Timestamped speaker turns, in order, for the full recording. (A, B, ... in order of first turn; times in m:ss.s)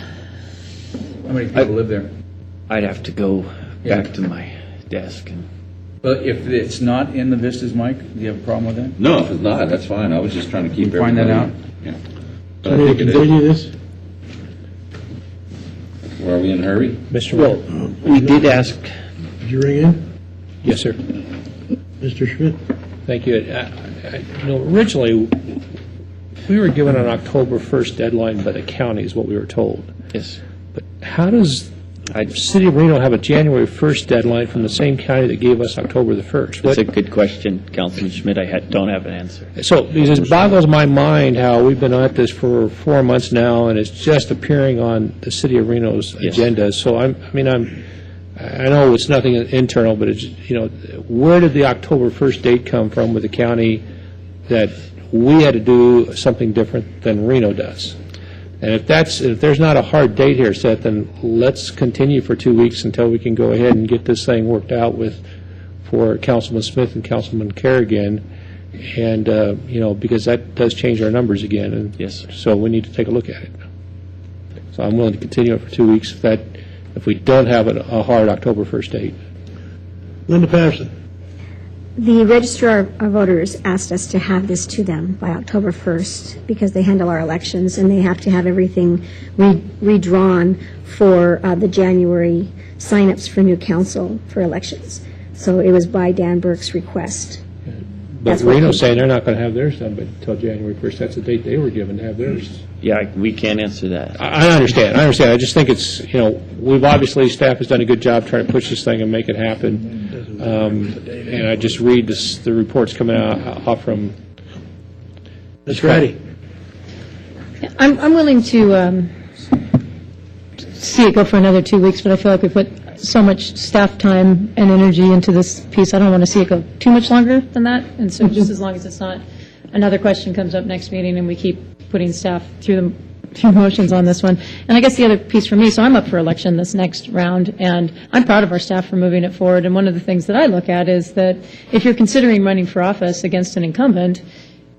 0:01.4-0:01.9 A
0:02.7-0:05.4 B
0:06.0-0:07.4 A
0:08.1-0:08.9 A
0:09.0-0:12.0 C
0:10.8-0:11.5 A
0:12.6-0:13.3 C
0:12.7-0:13.7 D
0:16.2-0:17.0 C
0:17.1-0:17.6 E
0:17.3-0:18.9 B
0:17.8-0:18.4 D
0:19.4-0:20.0 D
0:20.6-0:21.0 E
0:22.0-0:22.6 D
0:23.0-0:25.6 E
0:26.4-0:29.9 E
0:30.7-0:31.7 E
0:32.2-0:36.8 E
0:36.6-0:39.5 B
0:39.6-0:47.8 E
0:46.2-0:46.5 B
0:48.4-0:53.8 E
0:54.5-0:57.9 E
0:58.6-1:05.2 E
1:05.8-1:08.2 E
1:08.8-1:13.5 E
1:12.0-1:12.2 B
1:14.7-1:19.1 E
1:20.3-1:20.9 D
1:22.0-1:37.4 F
1:38.2-1:42.6 E
1:38.2-1:38.8 F
1:42.8-1:44.2 B
1:44.2-1:54.1 E
1:55.6-1:56.2 D
1:55.7-1:56.0 E
1:57.6-1:59.1 G
2:00.7-2:24.2 G